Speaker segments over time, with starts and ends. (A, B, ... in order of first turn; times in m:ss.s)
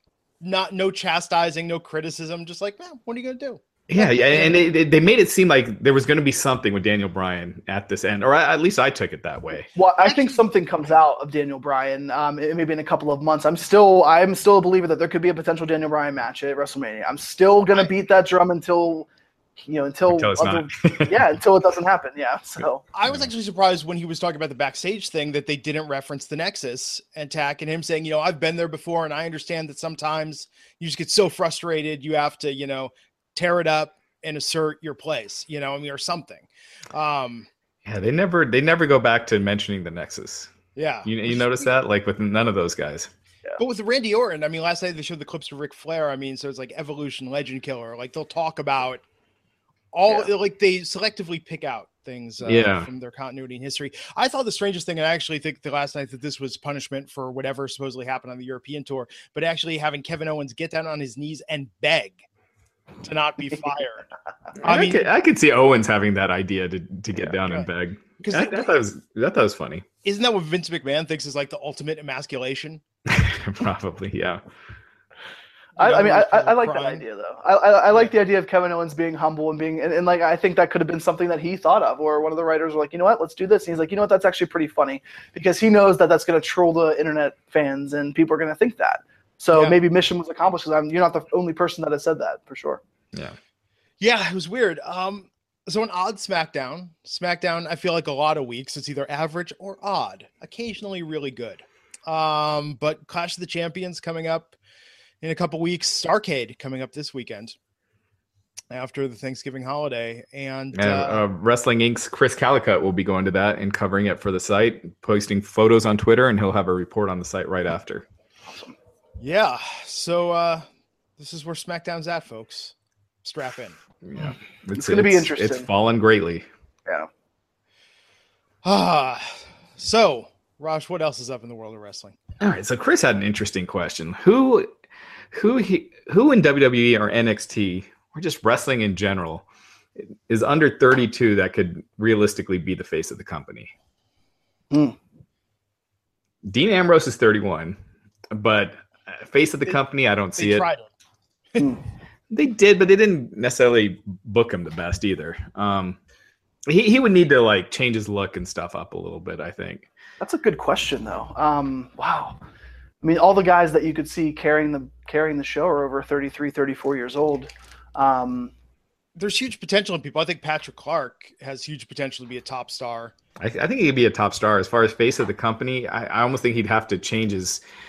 0:00.4-0:04.6 A
0:03.9-0:09.7 B
0:09.8-0:19.1 C
0:10.0-0:10.4 A
0:19.7-0:22.8 C
0:20.1-0:21.2 B
0:22.9-0:37.5 A
0:37.8-0:40.5 B
0:40.8-0:41.7 A
0:41.0-0:43.1 B
0:43.6-0:49.0 A
0:49.9-1:02.2 A
0:52.4-0:52.9 B
1:03.0-1:04.1 A
1:04.6-1:05.1 A
1:04.6-1:09.8 B
1:07.3-1:07.7 A
1:08.2-1:08.8 A
1:10.0-1:12.8 A
1:13.1-1:14.4 B
1:15.8-1:17.0 A
1:15.8-1:32.8 C
1:29.5-1:29.8 A
1:34.0-1:44.6 A
1:45.2-1:47.6 A
1:48.7-1:51.2 A
1:50.7-1:58.1 B
1:59.2-2:00.6 A
2:01.2-2:03.8 A
2:04.0-2:06.5 B
2:04.8-2:05.7 C
2:08.6-2:12.2 A
2:12.4-2:14.7 B
2:15.3-2:19.4 B
2:20.0-2:23.7 B
2:24.7-2:25.0 C
2:26.4-2:27.8 B
2:28.3-2:30.7 B
2:30.4-2:30.9 A
2:32.3-2:36.0 B
2:36.7-2:39.9 B
2:40.2-2:42.4 C
2:43.0-2:48.5 C
2:49.2-2:53.2 A
2:53.4-2:57.6 B